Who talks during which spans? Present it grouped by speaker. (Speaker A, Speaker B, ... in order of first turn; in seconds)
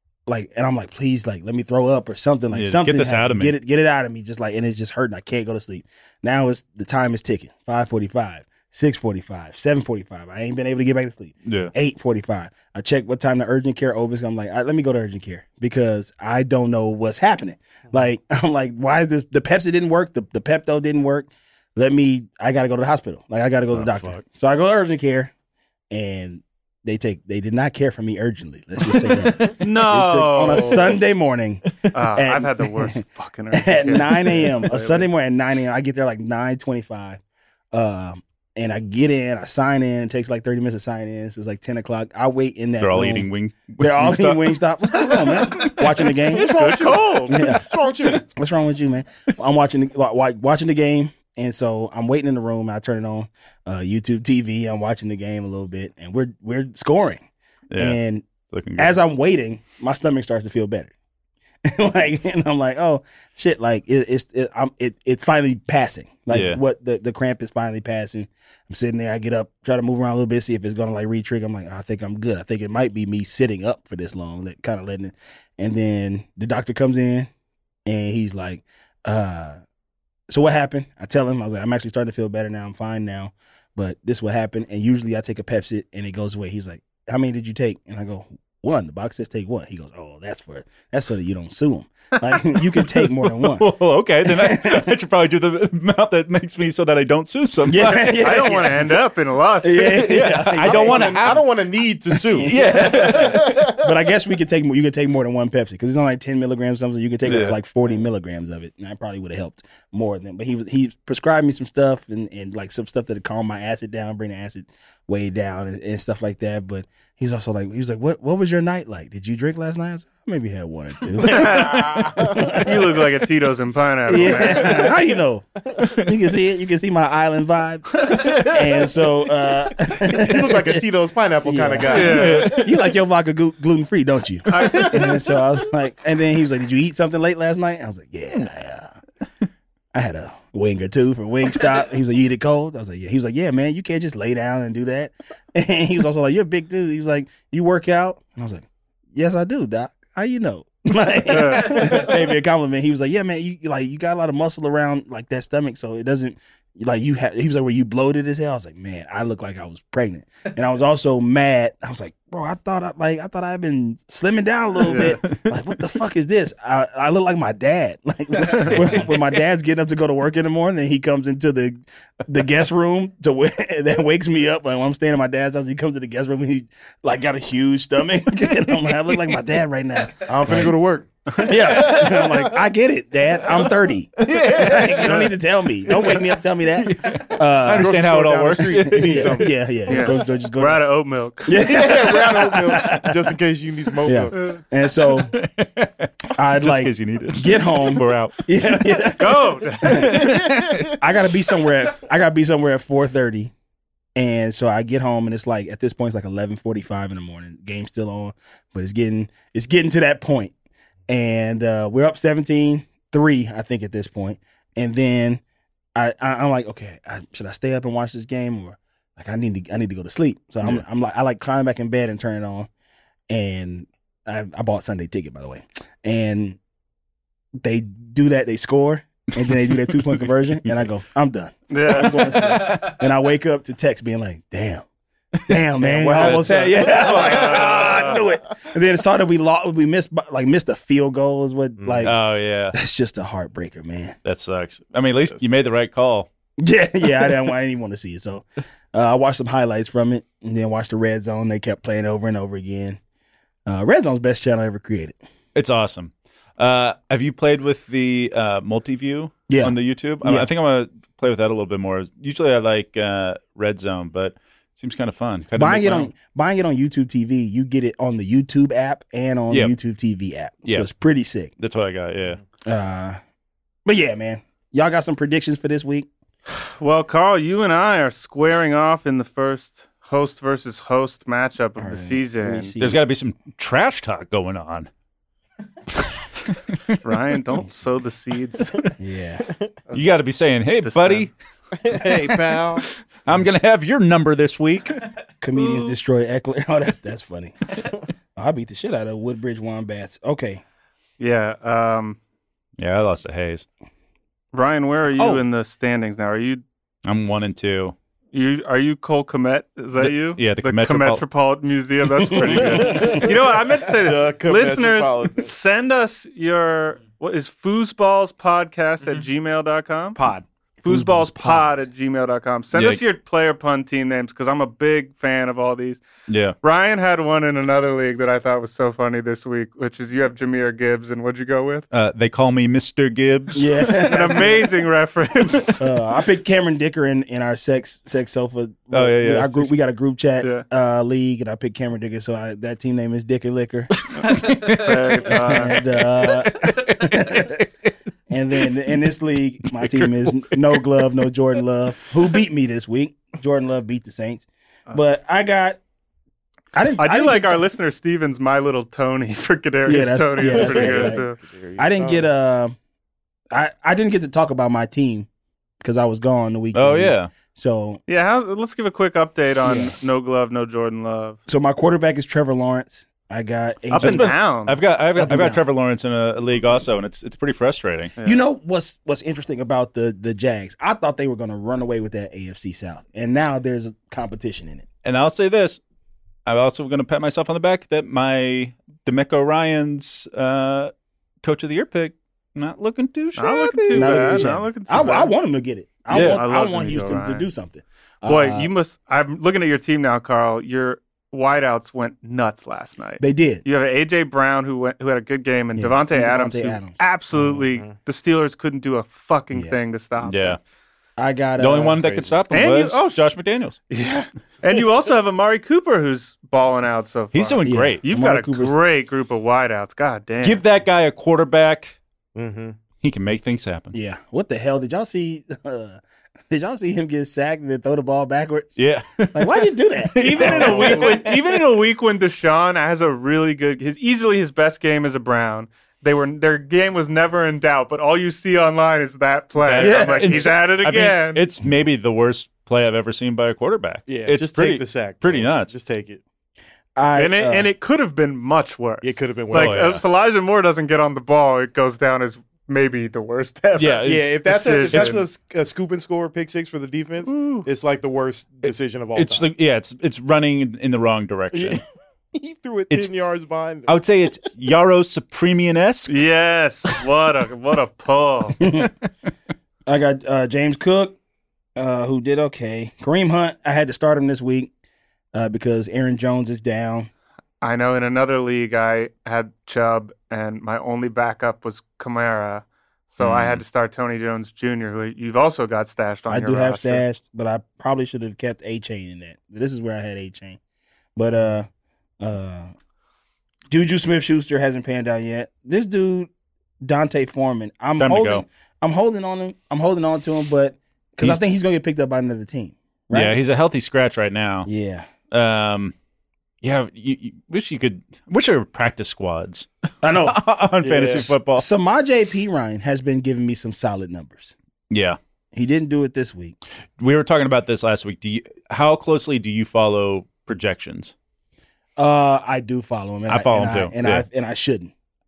Speaker A: 0.3-25.3, 25.9-33.0, 33.5-37.2, 37.7-57.2, 57.8-60.9, 61.6-77.3, 77.8-79.6, 80.3-93.7, 94.2-94.9, 97.7-99.0, 99.6-101.4, 102.3-123.0, 124.1-130.8, 131.4-138.9, 139.9-180.8, 181.4-190.8, 191.4-193.2, 194.0-195.3, 196.3-203.5, 204.2-210.5, 211.1-215.4, 215.9-222.7, 223.3-226.6, 227.6-234.8, 235.4-242.2, 242.7-244.2, 246.6-253.0, 253.7-255.2, 259.5-260.5, 265.6-271.5, 272.6-273.2, 273.8-276.1, 281.8-283.0, 289.0-289.5, 295.4-297.8, 298.4-300.6, 305.1-305.4, 312.3-313.2, 320.9-321.6, 333.5-334.7, 335.8-344.0, 345.3-347.6, 348.3-355.8, 356.7-357.7, 359.9-361.2, 361.8-362.8, 363.5-365.3, 365.8-368.0, 369.6-369.9, 371.5-374.3, 375.1-375.6, 378.2-384.9, 393.9-398.7, 403.2-403.6, 405.8-407.6, 411.2-412.4, 417.6-418.8, 423.9-431.3, 439.8-440.5, 446.9-447.7, 468.6-468.9, 469.9-471.2, 471.8-474.7, 475.3-477.1, 486.3-490.6, 491.1-491.7, 492.2-492.7, 493.7-496.3, 496.8-503.4, 504.6-505.1, 510.0-510.5, 511.1-514.5, 515.5-516.6, 522.0-524.9
Speaker B: 2.5-3.5, 11.5-11.7, 23.7-24.2, 28.9-29.5, 42.8-44.5, 45.6-46.1, 57.7-59.0, 66.3-66.6, 93.0-98.6, 99.8-101.5, 102.3-103.6, 107.2-107.5, 131.9-132.6, 165.0-165.4, 184.6-185.2, 185.9-186.2, 186.8-189.4, 195.2-198.4, 199.8-200.9, 235.9-236.9, 242.0-242.8, 244.2-246.3, 255.5-266.1, 271.6-272.4, 282.8-284.9, 286.5-286.9, 289.9-291.3, 293.2-295.0, 302.8-303.6, 307.0-307.9, 310.0-311.2, 312.3-313.0, 322.7-323.0, 326.3-326.6, 331.9-333.7, 338.9-339.7, 344.1-347.6, 349.7-350.8, 366.7-367.3, 374.0-378.1, 385.0-385.8, 386.4-394.5, 396.1-396.4, 410.2-410.6, 411.6-413.8, 417.3-418.0, 420.4-422.0, 423.0-423.9, 428.8-431.7, 439.6-445.7, 449.5-450.0, 453.8-454.3, 454.8-455.2, 458.6-461.8, 463.9-466.1, 483.2-483.6, 498.0-498.4, 503.1-504.7, 505.3-505.9, 506.6-509.7, 510.2-511.7, 514.9-515.2, 517.0-521.1, 523.3-524.2
Speaker C: 29.6-31.0, 31.9-35.1, 46.3-47.5, 97.8-100.0, 121.2-124.9, 131.9-132.5, 134.6-134.9, 151.2-152.1, 164.8-165.2, 168.5-168.8, 189.9-191.6, 199.2-200.2, 231.7-232.4, 236.8-238.2, 276.8-282.7, 287.0-288.9, 290.8-291.3, 295.6-295.9, 301.2-302.2, 304.5-306.6, 308.3-320.2, 320.8-326.0, 326.6-331.9, 334.0-335.8, 344.2-345.8, 357.0-361.4, 368.1-371.4, 373.9-374.8, 393.4-395.3, 396.1-397.5, 398.2-410.6, 412.5-413.3, 413.9-420.6, 430.1-441.4, 447.1-455.2, 457.2-457.7, 466.1-468.6, 477.6-487.0
Speaker D: 46.3-48.2, 100.6-103.8, 128.1-128.8, 129.9-132.7, 134.6-135.4, 180.2-182.4, 184.2-185.3, 187.7-189.5, 191.7-194.4, 200.3-200.7, 235.8-238.2, 241.8-242.1, 291.8-292.9, 312.8-315.5, 360.4-362.3, 422.3-422.8, 444.1-446.2, 449.0-450.0, 454.0-459.5, 461.5-461.8, 462.3-464.1, 510.8-511.3